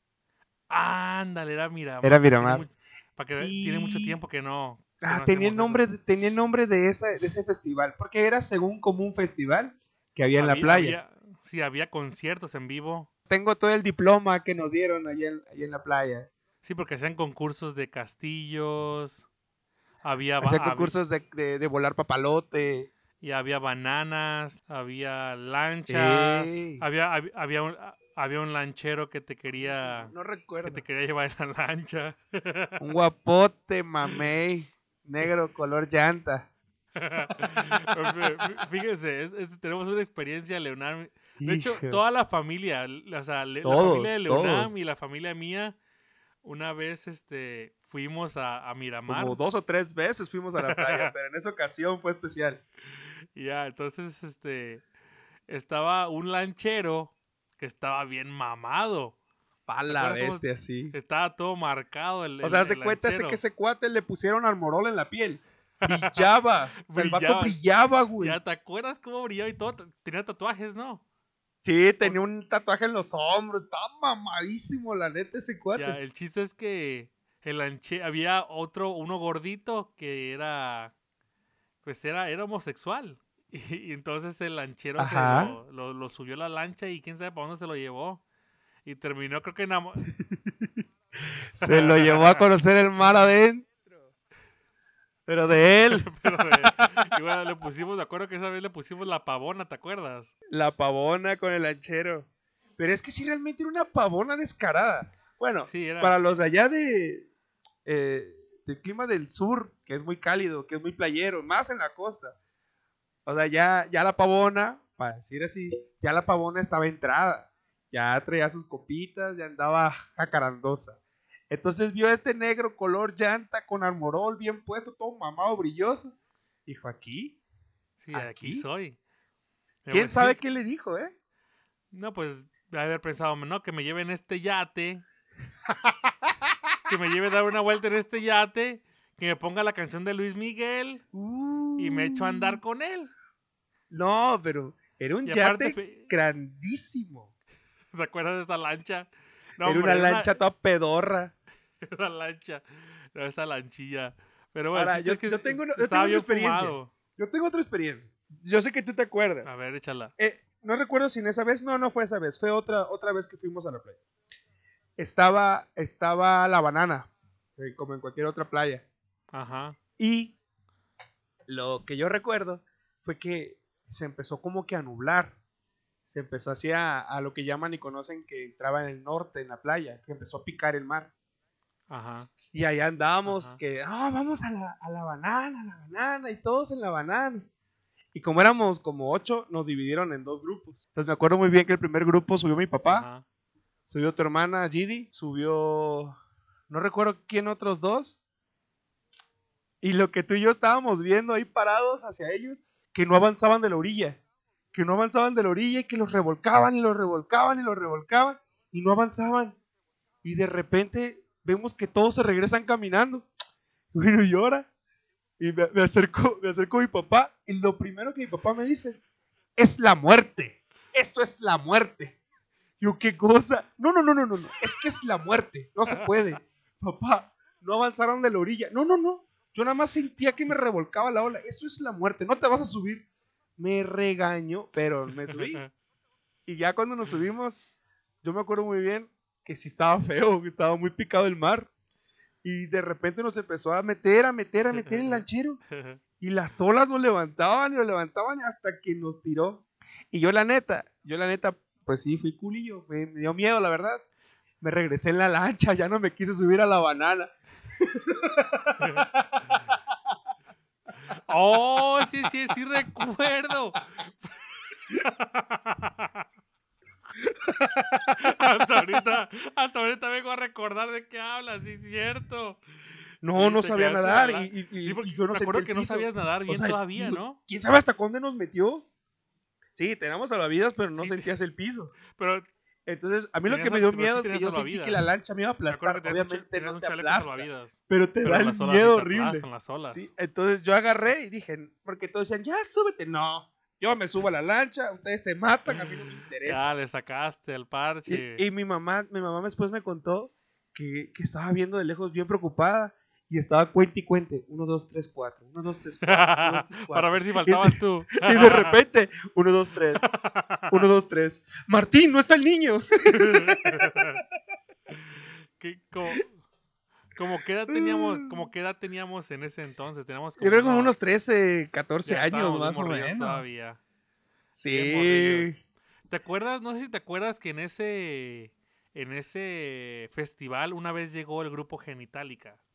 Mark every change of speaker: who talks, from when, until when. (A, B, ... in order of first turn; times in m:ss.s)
0:00.7-0:05.9 A
0:02.0-0:02.6 B
0:03.4-0:04.2 B
0:05.0-0:11.0 B
0:10.3-0:13.1 A
0:13.3-0:16.3 B
0:16.6-0:19.2 A
0:20.0-0:21.0 A
0:20.4-0:22.9 B
0:23.2-0:30.1 A
0:25.9-0:26.8 B
0:29.5-0:30.8 B
0:30.7-0:32.8 A
0:32.8-0:36.5 B
0:37.0-0:45.8 A
0:37.3-0:37.7 B
0:41.4-0:42.0 B
0:43.6-0:44.7 B
0:46.4-0:49.4 A
0:49.1-0:52.6 B
0:50.6-0:51.1 A
0:53.4-0:54.8 A
0:55.5-0:59.2 A
0:59.7-1:01.0 B
0:59.9-1:03.4 A
1:02.4-1:08.4 B
1:05.8-1:06.3 A
1:06.8-1:07.6 A
1:08.2-1:11.0 A
1:11.6-1:16.0 B
1:15.8-1:20.9 A
1:21.8-1:28.2 A
1:25.0-1:25.6 B
1:28.8-1:30.1 A
1:30.2-1:30.7 B
1:31.5-1:34.0 B
1:31.6-1:32.5 A
1:35.3-1:36.5 B
1:35.9-1:40.3 A
1:40.5-1:42.3 B
1:42.8-1:47.3 B
1:45.7-1:46.2 A
1:47.9-1:52.4 B
1:53.3-2:01.0 B
2:01.5-2:06.2 B
2:06.7-2:07.4 B
2:08.0-2:09.0 A
2:08.1-2:08.6 B
2:09.8-2:10.4 A
2:09.9-2:11.1 B
2:11.9-2:15.0 A
2:15.7-2:16.6 B
2:16.9-2:21.0 A
2:21.1-2:22.6 B
2:21.8-2:23.1 A
2:23.9-2:27.3 B
2:25.2-2:26.1 A
2:27.9-2:30.4 A
2:29.6-2:31.3 B
2:31.8-2:36.9 A
2:34.7-2:39.5 B
2:39.4-2:40.1 A
2:40.2-2:44.0 B
2:45.0-2:48.8 B
2:49.3-2:49.8 A
2:50.0-2:50.4 B
2:51.5-2:55.4 B
2:56.1-3:01.1 B
3:01.9-3:02.3 A
3:02.5-3:07.5 B
3:03.3-3:03.6 A
3:08.1-3:13.1 B
3:12.9-3:13.2 A
3:13.9-3:16.2 B
3:16.7-3:18.2 B
3:19.8-3:24.2 B
3:24.7-3:29.6 B
3:30.2-3:33.3 B
3:33.9-3:34.7 B
3:35.4-3:39.0 B
3:39.6-3:42.2 B
3:42.8-3:53.0 B
3:53.6-3:55.6 B
3:55.3-3:55.7 A
3:56.5-3:57.6 B
3:58.2-4:01.7 B
4:02.4-4:05.6 B
4:04.7-4:06.0 A
4:06.2-4:14.0 B
4:14.6-4:19.8 B
4:18.8-4:19.1 A
4:21.3-4:24.3 A
4:24.9-4:26.2 A
4:27.3-4:28.2 B
4:28.2-4:32.6 A
4:33.2-4:38.8 B
4:33.2-4:37.4 A
4:39.8-4:41.9 B
4:41.0-4:41.3 A
4:42.1-4:42.5 A
4:42.9-4:56.7 B
4:43.5-4:45.0 A
4:45.7-4:50.1 A
4:55.7-4:58.4 A
4:58.1-5:10.1 B
5:06.0-5:08.8 A
5:10.0-5:10.8 A
5:10.7-5:13.9 B
5:13.1-5:14.2 A
5:15.1-5:16.4 A
5:17.2-5:21.0 A
5:17.7-5:18.3 B
5:20.4-5:23.5 B
5:22.0-5:23.8 A
5:24.6-5:25.6 B
5:24.7-5:25.5 A
5:26.1-5:32.6 A